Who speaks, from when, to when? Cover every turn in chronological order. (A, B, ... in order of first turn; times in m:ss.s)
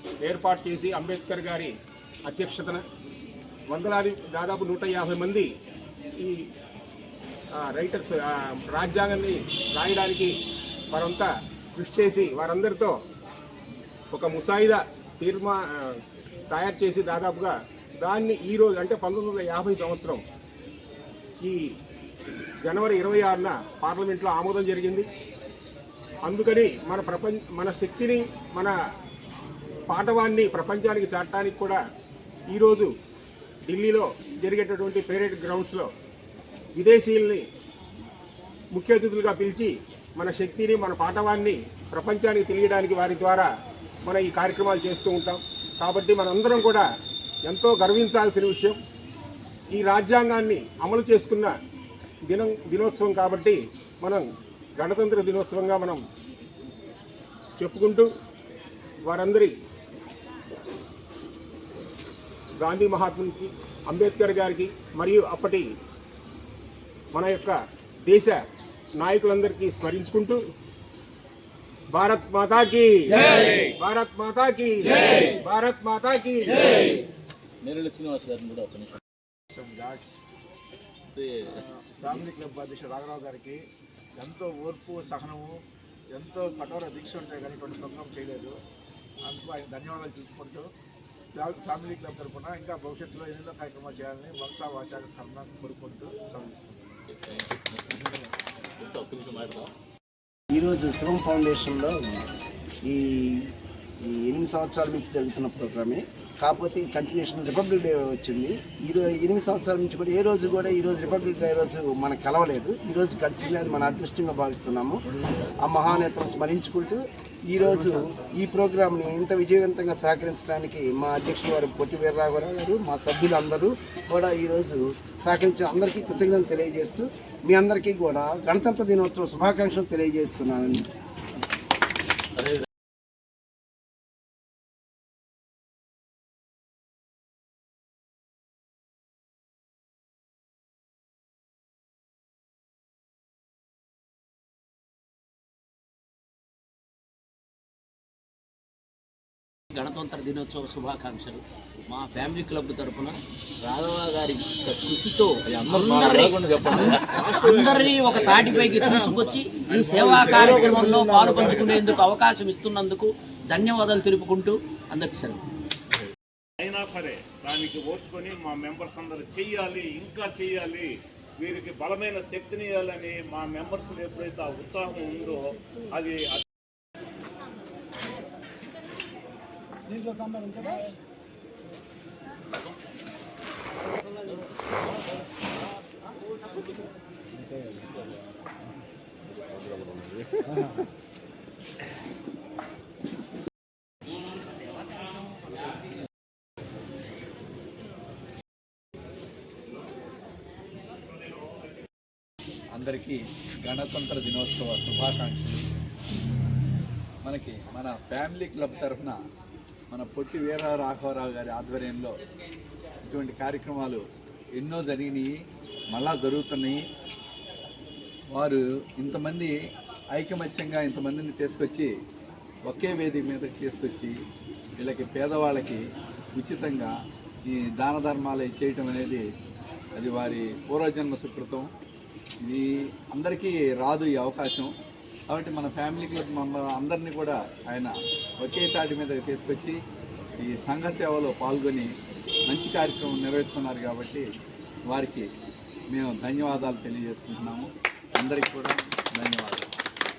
0:00.2-0:01.7 A
0:02.3-0:02.8 A
0:03.7-0:05.5 A
0:07.6-0:10.4 A
0:10.9-0:13.0 A
0:14.1-0:16.0 A
0:16.5-0:20.2 A
0:21.4-0:21.7 A
0:22.6-0:25.1 A
0:26.2-0:28.8 A
0:29.9-0:31.8 A
0:32.5-0:32.9 A
0:33.7-0:35.9 A
0:36.8-0:37.4 A
0:38.8-0:43.5 A
0:44.0-0:46.9 A
0:47.5-0:48.8 A
0:49.7-0:51.5 A
0:52.3-0:54.2 A
0:54.8-0:56.0 A
0:57.6-0:58.1 A
0:59.1-0:59.5 A
1:02.6-1:05.7 A
1:07.1-1:08.4 A
1:09.0-1:10.4 A
1:11.9-1:16.8 A
1:17.6-1:19.0 B
1:19.5-1:20.1 C
1:21.1-1:21.6 B
1:21.7-1:23.6 C
1:24.2-1:25.6 C
1:26.1-1:28.6 C
1:29.2-1:30.7 C
1:31.4-1:36.9 C
1:37.1-1:38.2 B
1:38.8-1:39.7 B
1:40.5-1:42.2 D
1:42.8-1:55.0 D
1:55.6-2:10.9 D
2:29.7-2:45.4 E
2:35.5-2:39.3 B
2:37.3-2:37.9 F
2:46.6-2:56.4 G
3:22.8-3:25.7 F
3:27.2-3:29.2 F
3:29.9-3:32.2 F
3:33.1-3:34.0 F
3:34.6-3:35.3 F
3:35.9-3:36.8 F
3:38.3-3:39.6 F
3:40.1-3:41.9 F
3:42.7-3:44.1 F
3:44.8-3:45.8 F
3:46.4-3:46.9 F
3:47.5-3:49.2 F
3:50.0-3:51.7 F
3:52.4-3:54.7 F
3:55.3-3:59.8 F
4:00.4-4:01.9 F
4:02.5-4:04.2 F
4:04.9-4:05.3 F
4:05.9-4:09.7 F